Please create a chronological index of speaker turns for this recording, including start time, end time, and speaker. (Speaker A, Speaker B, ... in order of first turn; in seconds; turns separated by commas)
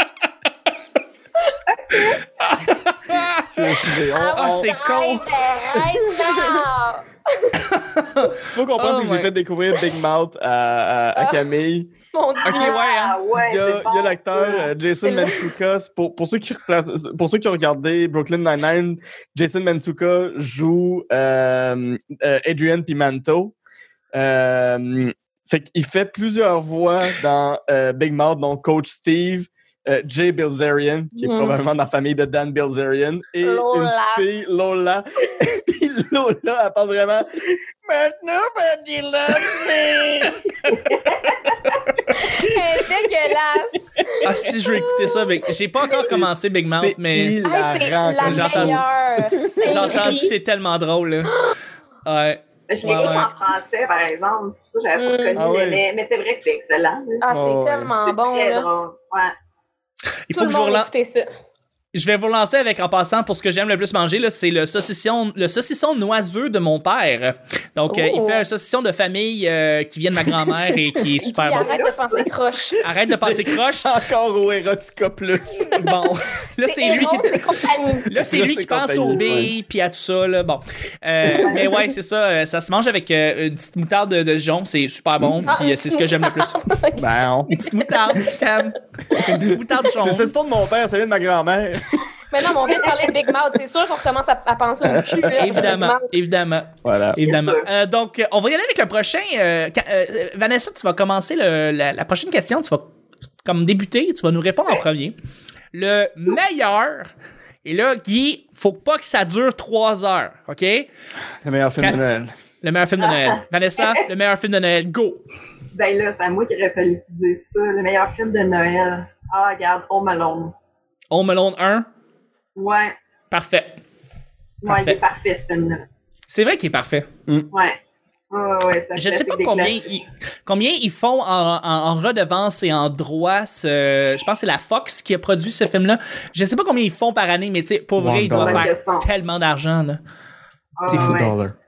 Speaker A: 1.7-2.2, Speaker B: 2.4-3.7, Speaker C: 3.5-4.9, Speaker D: 4.1-7.6, Speaker B: 4.3-5.5, Speaker C: 5.7-6.6, Speaker B: 7.6-9.3, Speaker C: 8.3-11.9, Speaker D: 11.1-11.4, Speaker D: 12.1-12.7, Speaker A: 12.4-14.7, Speaker B: 12.4-13.2, Speaker C: 13.3-23.5, Speaker D: 15.0-15.5, Speaker C: 24.1-40.4, Speaker D: 31.1-31.6, Speaker D: 33.4-34.2, Speaker A: 40.7-41.8, Speaker D: 42.1-45.3, Speaker B: 44.2-47.4, Speaker C: 45.9-50.1, Speaker D: 47.4-50.3, Speaker B: 48.2-48.8, Speaker B: 49.6-51.4, Speaker D: 51.3-51.5, Speaker B: 52.0-53.3, Speaker A: 52.7-57.2, Speaker D: 52.9-53.3, Speaker D: 55.0-55.4, Speaker C: 55.4-55.8, Speaker D: 57.2-58.7, Speaker C: 57.3-57.9, Speaker A: 58.0-59.3, Speaker B: 60.3-60.9, Speaker D: 60.3-61.3, Speaker B: 61.9-71.7, Speaker D: 67.9-68.5, Speaker D: 71.1-72.8, Speaker A: 71.4-72.3, Speaker B: 72.8-74.0, Speaker C: 72.9-75.8, Speaker B: 75.7-77.5, Speaker D: 76.7-78.1, Speaker B: 78.1-86.7, Speaker C: 78.1-79.5, Speaker A: 81.3-81.8, Speaker C: 85.2-85.5, Speaker D: 85.5-88.3, Speaker C: 87.0-87.5, Speaker B: 87.5-90.3, Speaker C: 89.4-92.0, Speaker D: 92.3-96.1, Speaker C: 94.8-95.7, Speaker B: 95.3-102.9, Speaker C: 96.8-97.2, Speaker A: 97.2-97.7, Speaker B: 103.4-105.1, Speaker B: 105.7-107.1, Speaker B: 107.6-110.9, Speaker C: 111.4-112.3, Speaker B: 112.6-115.2, Speaker A: 113.0-114.0, Speaker A: 115.7-120.5, Speaker B: 121.1-121.9, Speaker A: 122.5-123.0, Speaker B: 123.3-123.8, Speaker A: 124.6-125.8, Speaker B: 124.6-125.0, Speaker B: 126.3-127.1, Speaker A: 127.5-127.8, Speaker A: 128.3-129.9, Speaker B: 128.9-140.0, Speaker C: 138.0-138.7, Speaker A: 138.3-139.1, Speaker A: 140.8-141.3, Speaker B: 140.9-141.2, Speaker C: 140.9-141.5